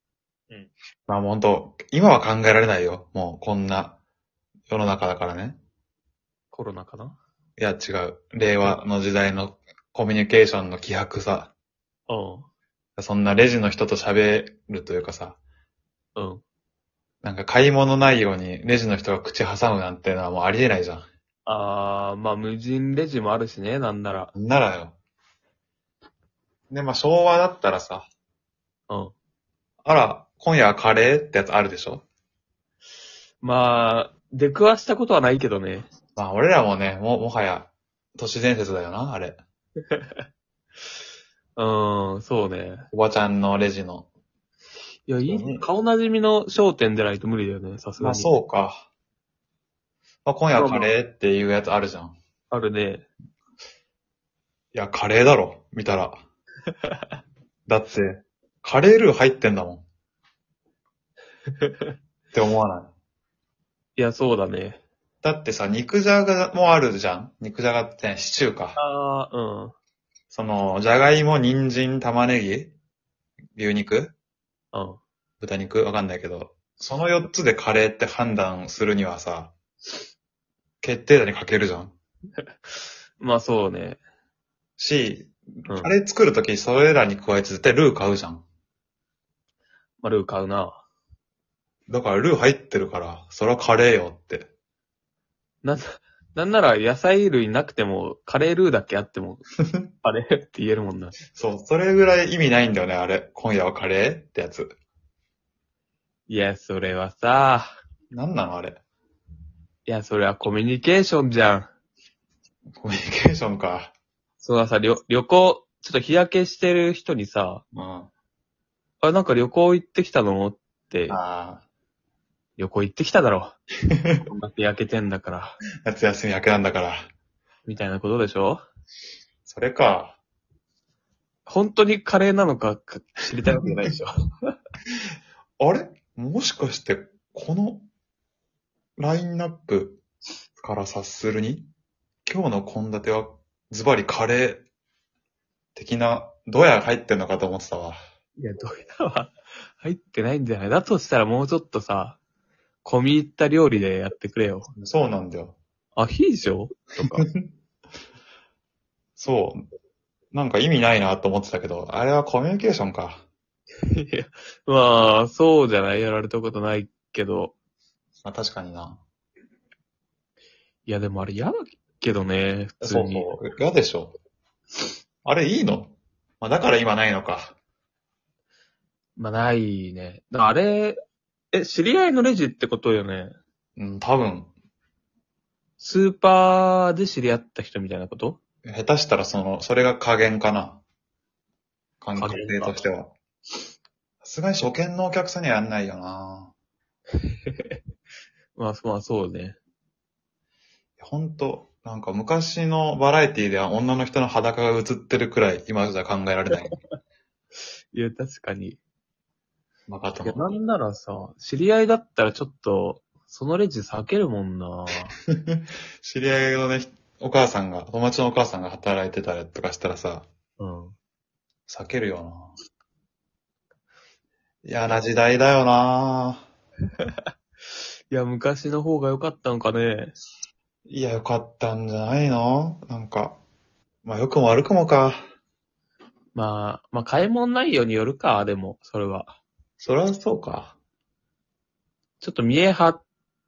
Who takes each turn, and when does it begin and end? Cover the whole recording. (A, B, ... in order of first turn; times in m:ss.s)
0:01.1-0:04.0 A
0:04.7-0:05.6 A
0:06.5-0:07.2 B
0:07.6-0:11.5 A
0:12.1-0:12.5 B
0:13.0-0:15.4 A
0:16.2-0:16.4 B
0:17.2-0:21.0 A
0:21.4-0:24.3 B
0:24.3-0:25.0 A
0:26.7-0:28.1 A
0:28.9-0:29.1 B
0:29.8-0:32.0 A
0:33.4-0:35.9 B
0:36.2-0:39.4 A
0:39.9-0:40.2 B
0:41.6-0:42.9 B
0:42.9-0:44.1 A
0:45.0-0:48.3 B
0:45.2-0:45.6 A
0:48.0-0:48.8 A
0:50.2-0:52.2 A
0:50.5-0:50.9 B
0:52.5-0:53.0 B
0:54.7-0:56.2 A
0:57.7-0:59.8 A
1:01.6-1:01.9 B
1:02.3-1:02.9 A
1:04.0-1:04.8 B
1:05.2-1:08.8 A
1:08.7-1:09.7 B
1:10.3-1:12.7 A
1:13.5-1:14.1 A
1:14.7-1:15.0 B
1:15.4-1:19.5 A
1:20.8-1:21.9 A
1:22.6-1:24.0 B
1:24.8-1:28.4 A
1:30.0-1:30.8 B
1:31.9-1:34.5 A
1:35.6-1:39.4 B
1:40.0-1:41.2 B
1:41.3-1:44.7 A
1:46.3-1:47.7 B
1:48.1-1:48.8 A
1:49.8-1:51.7 B
1:52.8-1:53.9 A
1:54.4-1:57.6 B
1:57.7-1:58.1 A
1:59.0-2:01.2 B
2:01.1-2:01.6 A
2:02.6-2:03.5 B
2:03.9-2:04.2 A
2:04.2-2:05.6 B
2:05.8-2:07.0 A
2:07.6-2:08.6 B
2:09.4-2:10.2 A
2:11.4-2:14.1 B
2:15.6-2:17.8 A
2:19.0-2:20.0 A
2:20.6-2:21.7 A
2:22.2-2:24.6 A
2:25.7-2:28.0 A
2:28.4-2:32.2 B
2:32.8-2:34.7 B
2:34.8-2:35.6 A
2:36.0-2:37.2 B
2:37.1-2:37.5 A
2:39.2-2:39.6 A
2:40.3-2:43.2 A
2:43.9-2:47.5 B
2:48.2-2:49.0 A
2:50.9-2:53.3 B
2:52.8-2:54.1 A
2:55.2-2:57.5 A
2:59.2-3:01.0 B
3:01.5-3:03.3 B
3:03.8-3:04.5 A
3:05.8-3:08.4 B
3:08.6-3:10.8 A
3:12.0-3:13.1 A
3:12.2-3:12.8 B
3:14.2-3:16.5 A
3:17.4-3:17.8 B
3:18.6-3:19.6 B
3:21.0-3:26.8 A
3:27.9-3:28.8 B
3:29.9-3:30.5 A
3:30.2-3:35.1 B
3:35.3-3:40.3 A
3:40.6-3:40.9 B
3:41.7-3:42.5 A
3:44.6-3:46.4 A
3:48.1-3:50.1 B
3:50.9-3:53.4 A
3:54.0-3:55.2 A
3:56.3-3:59.4 B
3:59.8-4:00.8 A
4:02.2-4:03.0 B